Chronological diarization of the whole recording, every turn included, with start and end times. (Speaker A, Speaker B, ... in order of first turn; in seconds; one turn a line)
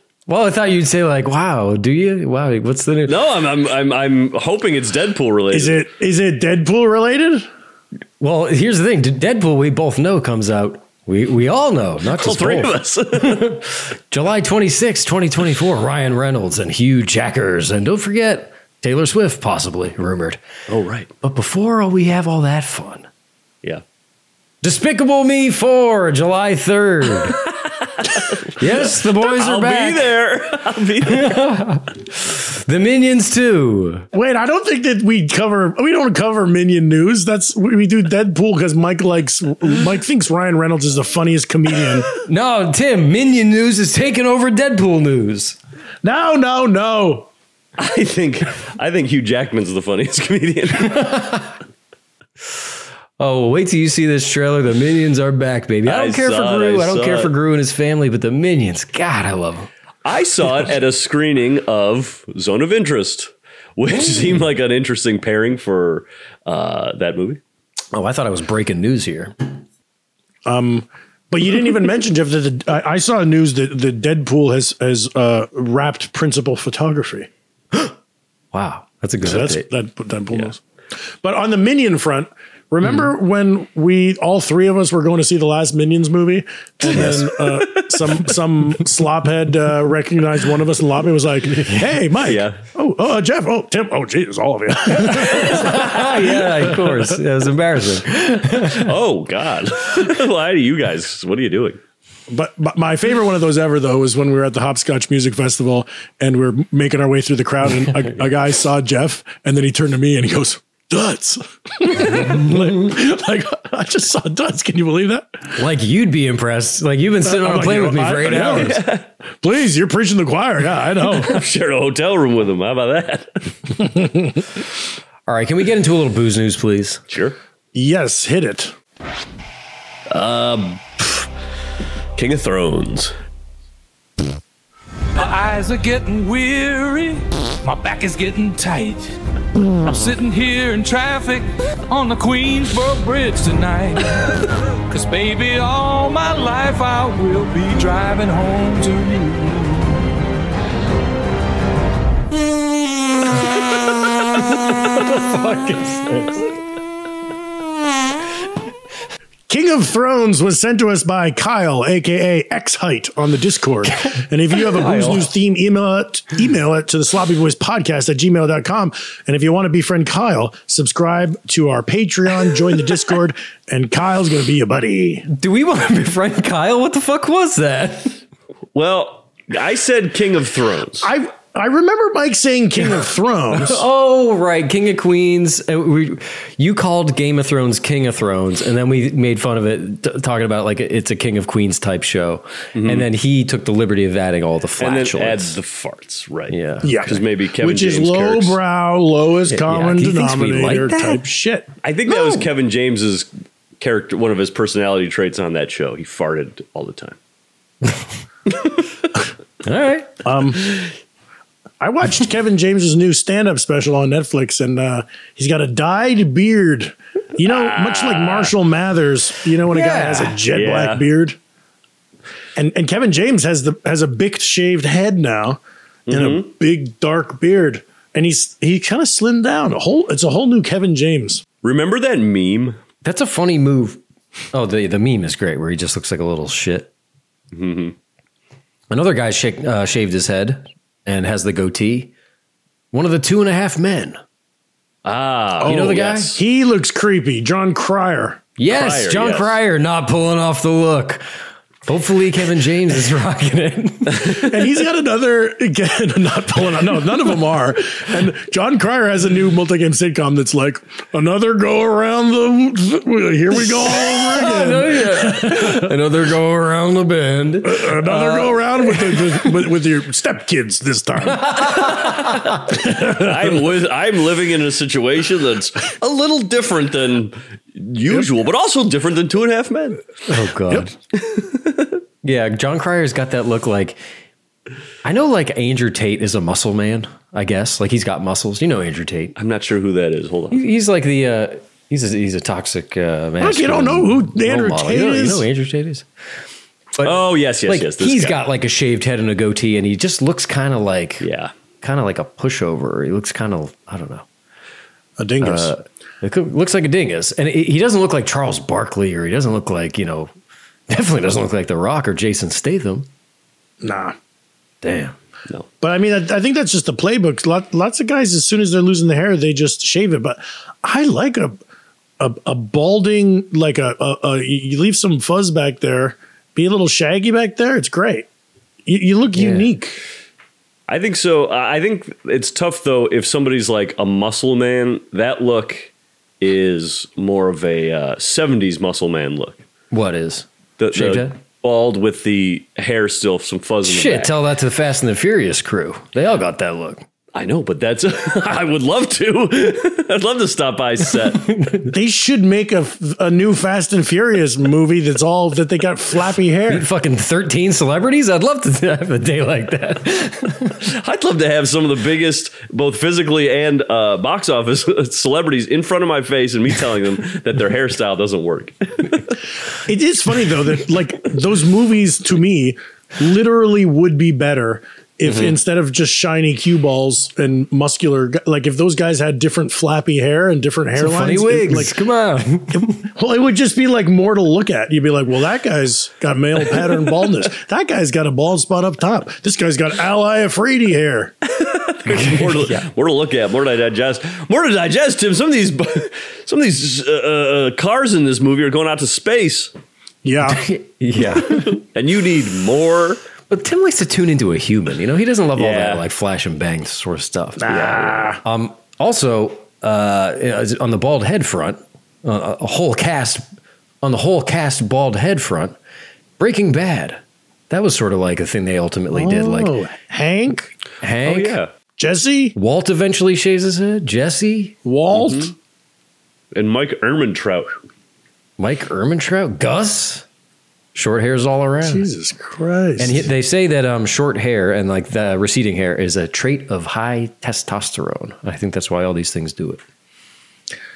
Speaker A: 0.3-3.2
Speaker B: 3.0-5.8
Speaker C: 5.5-7.5
Speaker A: 8.2-20.4
Speaker B: 12.1-13.6
Speaker B: 20.7-21.1
Speaker A: 21.2-23.1
Speaker A: 24.6-27.4
Speaker A: 28.6-30.1
Speaker B: 29.2-31.4
Speaker A: 31.0-34.0
Speaker C: 34.1-42.1
Speaker A: 42.2-45.6
Speaker C: 46.0-47.3
Speaker B: 47.8-51.1
Speaker A: 50.8-51.5
Speaker A: 53.2-59.7
Speaker B: 55.9-57.3
Speaker B: 60.0-67.4
Speaker A: 64.0-64.2
Speaker A: 67.9-69.6
Speaker C: 70.4-77.3
Speaker A: 78.5-79.7
Speaker C: 79.2-80.6
Speaker C: 81.2-96.8
Speaker A: 86.8-87.2
Speaker B: 86.9-88.2
Speaker A: 91.6-92.0
Speaker B: 92.2-92.6
Speaker A: 94.9-98.9
Speaker B: 98.8-101.8
Speaker C: 102.3-115.5
Speaker A: 115.5-118.8
Speaker C: 117.2-118.9
Speaker B: 118.2-119.0
Speaker C: 119.4-121.4
Speaker B: 121.0-123.3
Speaker A: 125.3-127.0
Speaker B: 127.1-127.4
Speaker C: 127.7-128.7
Speaker B: 130.1-131.3
Speaker B: 132.2-133.1
Speaker D: 135.2-139.1
Speaker D: 139.8-144.4
Speaker D: 144.9-150.1
Speaker A: 154.6-156.6
Speaker C: 159.5-175.3
Speaker A: 164.5-165.3
Speaker A: 175.3-178.2
Speaker B: 178.7-181.1
Speaker C: 181.0-183.8
Speaker A: 182.8-195.6
Speaker B: 192.7-193.0
Speaker B: 194.8-198.6
Speaker A: 196.5-196.9
Speaker C: 196.8-201.7
Speaker A: 199.5-201.2
Speaker B: 201.8-203.3
Speaker A: 202.1-202.4
Speaker B: 203.8-207.2
Speaker A: 209.6-210.2
Speaker C: 210.2-210.8
Speaker C: 211.8-221.4
Speaker B: 217.4-218.5
Speaker A: 219.7-220.4
Speaker B: 220.5-221.1
Speaker C: 222.6-225.6
Speaker B: 226.1-226.5
Speaker C: 226.1-231.4
Speaker B: 231.6-232.8
Speaker A: 233.0-234.0
Speaker A: 234.5-236.9
Speaker B: 237.5-237.9
Speaker A: 238.9-242.1
Speaker A: 242.9-244.2
Speaker B: 245.0-246.4
Speaker A: 245.6-246.4
Speaker C: 245.6-248.4
Speaker A: 248.6-251.2
Speaker B: 248.7-249.5
Speaker A: 251.8-254.3
Speaker C: 254.3-265.9
Speaker A: 263.5-269.7
Speaker C: 267.6-272.1
Speaker A: 271.2-272.5
Speaker C: 272.7-273.5
Speaker B: 272.9-280.0
Speaker A: 280.3-280.9
Speaker A: 282.2-284.0
Speaker A: 285.0-289.3
Speaker B: 289.4-290.6
Speaker A: 290.5-296.1
Speaker C: 293.4-295.4
Speaker A: 296.9-301.3
Speaker B: 297.0-298.4
Speaker B: 301.2-301.5
Speaker A: 301.8-304.2
Speaker C: 305.2-305.7
Speaker A: 305.4-310.3
Speaker A: 310.9-313.1
Speaker C: 313.8-314.1
Speaker A: 314.8-315.1
Speaker C: 315.8-321.6
Speaker C: 322.2-328.3
Speaker C: 328.9-330.0
Speaker A: 329.3-329.7
Speaker B: 330.9-339.6
Speaker A: 339.9-341.3
Speaker B: 340.8-344.3
Speaker A: 343.8-347.1
Speaker B: 347.3-351.5
Speaker A: 351.3-351.9
Speaker C: 351.9-356.9
Speaker A: 356.7-360.8
Speaker B: 360.9-369.2
Speaker C: 369.9-381.9
Speaker A: 375.2-375.6
Speaker A: 380.9-383.0
Speaker C: 382.8-391.3
Speaker B: 391.5-399.7
Speaker A: 392.1-392.9
Speaker C: 400.2-400.6
Speaker A: 400.4-401.8
Speaker B: 401.5-403.2
Speaker A: 403.5-413.4
Speaker B: 405.6-406.0
Speaker C: 407.6-408.4
Speaker B: 407.7-408.0
Speaker A: 414.0-415.8
Speaker A: 416.4-419.7
Speaker C: 419.1-420.7
Speaker A: 421.0-421.6
Speaker B: 421.2-421.7
Speaker C: 422.0-422.5
Speaker A: 422.5-424.7
Speaker C: 424.8-425.5
Speaker B: 425.1-425.5
Speaker B: 426.5-427.7
Speaker A: 428.6-430.2
Speaker A: 430.9-432.1
Speaker C: 431.8-433.3
Speaker A: 433.0-439.8